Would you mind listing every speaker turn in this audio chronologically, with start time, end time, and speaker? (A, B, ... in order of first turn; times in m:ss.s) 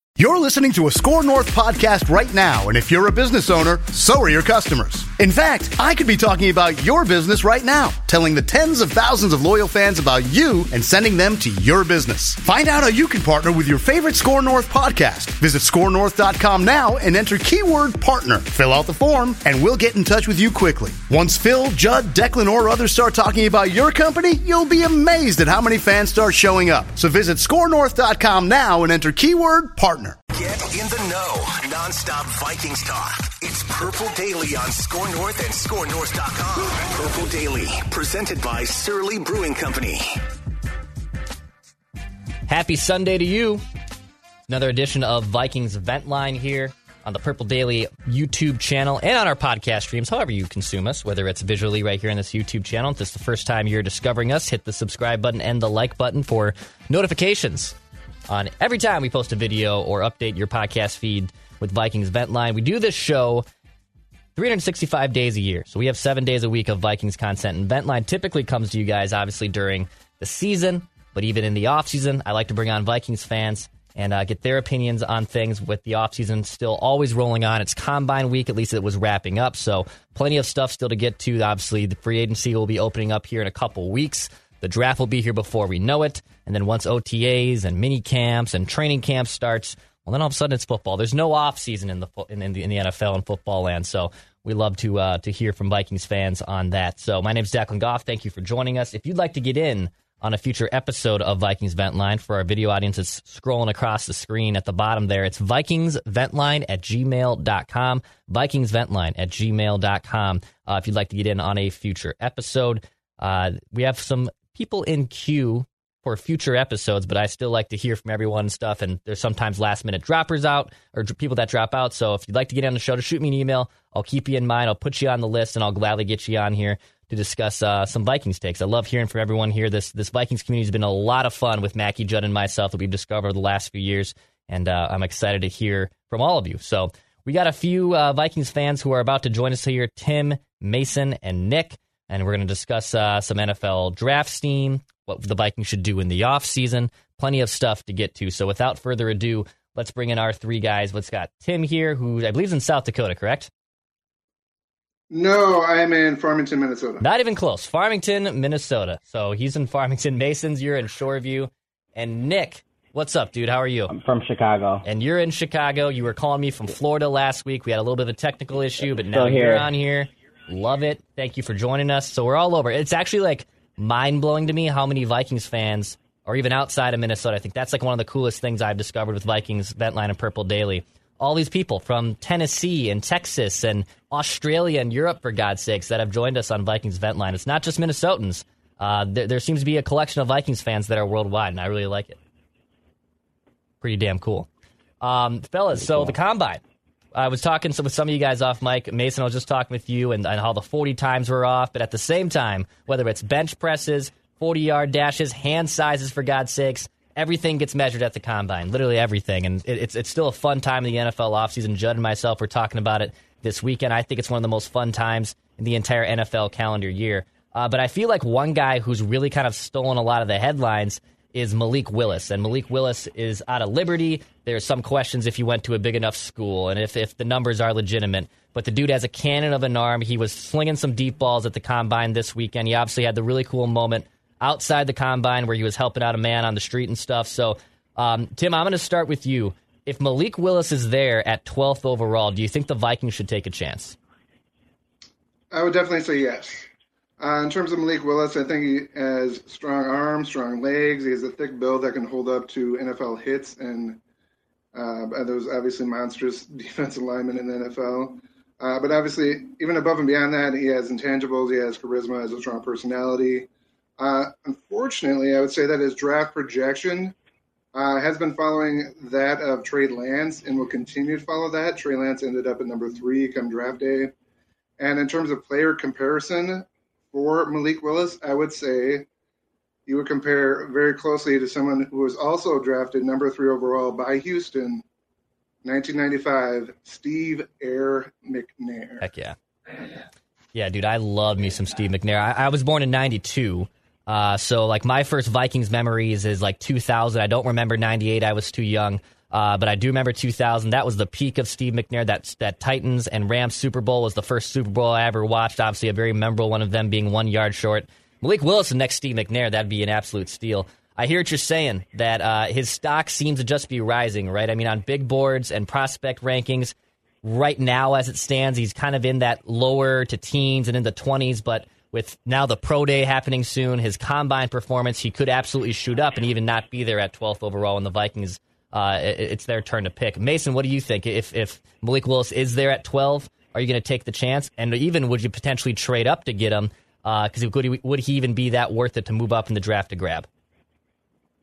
0:00.2-0:30.2 A
0:30.3-0:40.2 B
0:42.5-0:43.6 C
0:44.5-0:57.8 C
0:58.3-1:03.4 C
1:04.3-2:33.5 C
2:35.1-2:37.0 D
2:37.0-2:43.9 C
2:43.9-2:44.8 E
2:44.8-3:12.2 C
2:48.8-2:49.7 E
3:13.8-3:14.5 C
3:15.0-3:16.6 C
3:15.9-3:16.1 E
3:17.1-4:04.0 C
4:05.5-4:06.7 D
4:07.2-4:14.0 D
4:14.7-4:23.5 D
4:24.0-4:27.1 D
4:27.7-4:34.1 D
4:34.8-4:39.0 D
4:39.8-4:44.8 D
4:45.6-4:49.1 D
4:49.0-4:49.4 C
4:50.5-5:40.3 C